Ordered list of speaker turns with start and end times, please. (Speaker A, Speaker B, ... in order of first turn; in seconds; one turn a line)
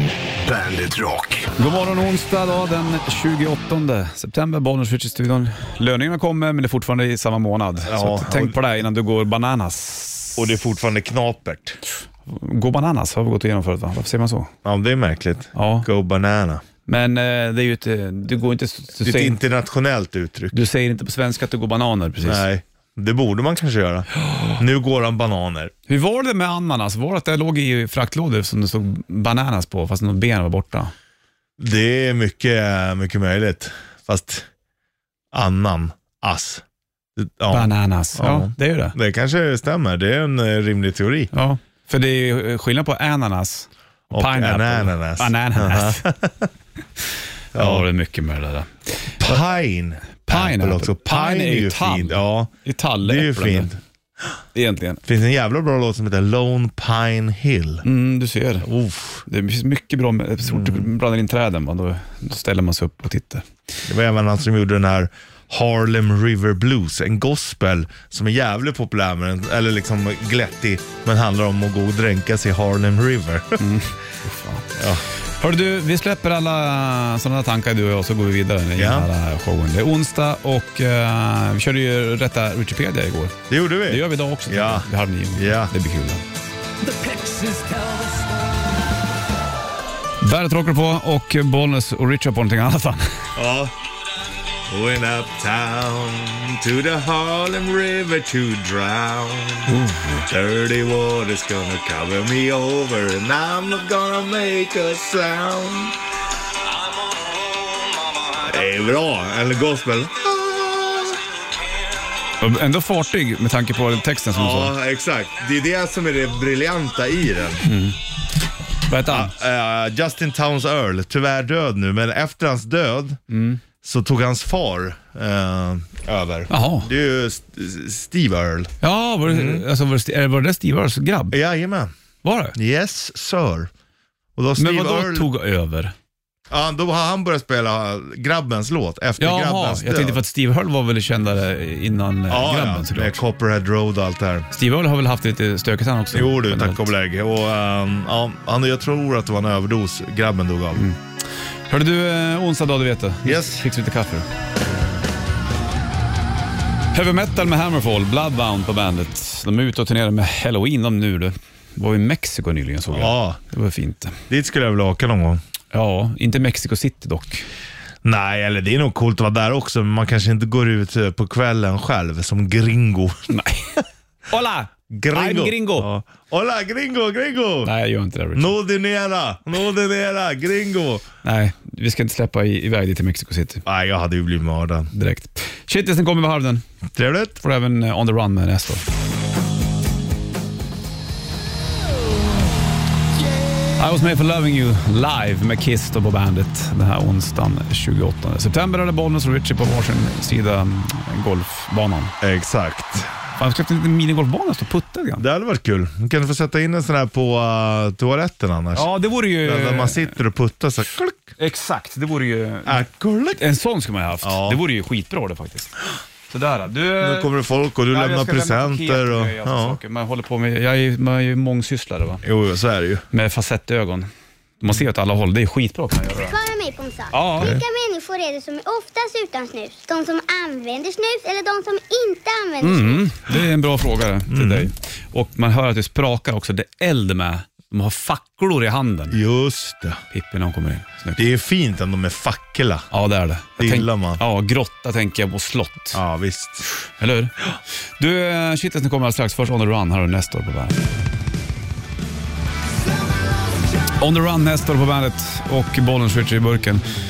Speaker A: 0.4-1.5
Speaker B: 1.6-10.4
Speaker C: 7.8-8.6
Speaker C: 10.4-11.8
Speaker B: 12.2-14.5
Speaker C: 14.6-16.6
Speaker B: 15.5-15.9
Speaker B: 16.9-19.4
Speaker C: 19.0-20.6
Speaker B: 20.5-22.4
Speaker C: 22.2-25.7
Speaker B: 25.9-30.9
Speaker C: 31.6-34.5
Speaker C: 35.3-36.6
Speaker C: 37.2-41.3
Speaker B: 37.5-39.0
Speaker B: 41.3-46.0
Speaker C: 44.1-46.5
Speaker C: 47.5-47.9
Speaker B: 47.5-49.4
Speaker C: 49.2-52.5
Speaker B: 50.3-53.7
Speaker C: 53.0-53.8
Speaker B: 54.5-55.0
Speaker C: 55.0-57.8
Speaker B: 57.8-58.7
Speaker C: 58.6-59.2
Speaker B: 59.2-63.5
Speaker C: 60.5-60.9
Speaker C: 63.9-73.7
Speaker B: 73.6-74.7
Speaker C: 74.8-75.0
Speaker B: 75.4-86.2
Speaker C: 78.8-79.1
Speaker C: 83.5-85.7
Speaker A: 86.9-88.6
Speaker B: 90.2-93.2
Speaker C: 93.3-93.7
Speaker C: 94.7-99.7
Speaker B: 99.7-100.3
Speaker C: 100.2-106.0
Speaker C: 108.4-111.2
Speaker B: 112.4-114.7
Speaker C: 114.3-117.7
Speaker B: 117.6-118.0
Speaker B: 118.9-119.3
Speaker C: 119.0-123.2
Speaker B: 123.3-123.6
Speaker C: 123.8-128.7
Speaker B: 126.5-126.9
Speaker B: 128.8-131.3
Speaker C: 129.2-129.6
Speaker C: 131.3-131.9
Speaker B: 132.2-132.6
Speaker C: 132.5-133.7
Speaker C: 134.3-135.3
Speaker B: 134.6-135.9
Speaker C: 136.5-140.2
Speaker B: 139.2-143.2
Speaker C: 142.3-144.5
Speaker B: 144.5-146.9
Speaker C: 146.1-150.9
Speaker B: 150.7-151.0
Speaker B: 151.7-154.3
Speaker C: 153.2-153.6
Speaker B: 156.9-164.2
Speaker C: 162.9-163.4
Speaker C: 164.3-165.4
Speaker B: 165.7-167.5
Speaker C: 168.0-173.3
Speaker B: 173.3-175.9
Speaker C: 174.9-177.7
Speaker B: 177.6-178.5
Speaker C: 178.3-181.1
Speaker B: 181.2-183.6
Speaker C: 183.6-184.9
Speaker B: 184.9-186.6
Speaker C: 186.9-187.4
Speaker B: 187.4-188.8
Speaker B: 193.8-202.1
Speaker C: 202.2-203.2
Speaker B: 203.4-205.2
Speaker C: 205.2-211.2
Speaker B: 208.7-210.1
Speaker B: 211.4-212.8
Speaker C: 212.7-213.4
Speaker B: 213.4-217.3
Speaker C: 214.2-214.6
Speaker C: 217.0-219.8
Speaker B: 217.9-222.2
Speaker C: 222.2-223.0
Speaker B: 223.1-224.1
Speaker B: 224.6-226.3
Speaker D: 226.2-233.1
Speaker B: 227.1-227.6
Speaker B: 232.6-239.2
Speaker C: 234.3-234.7
Speaker C: 239.1-240.0
Speaker B: 240.1-241.2
Speaker C: 241.2-242.9
Speaker B: 242.9-246.0
Speaker C: 243.6-244.2
Speaker C: 245.9-246.7
Speaker B: 246.8-247.3
Speaker B: 248.0-250.8
Speaker B: 254.0-256.8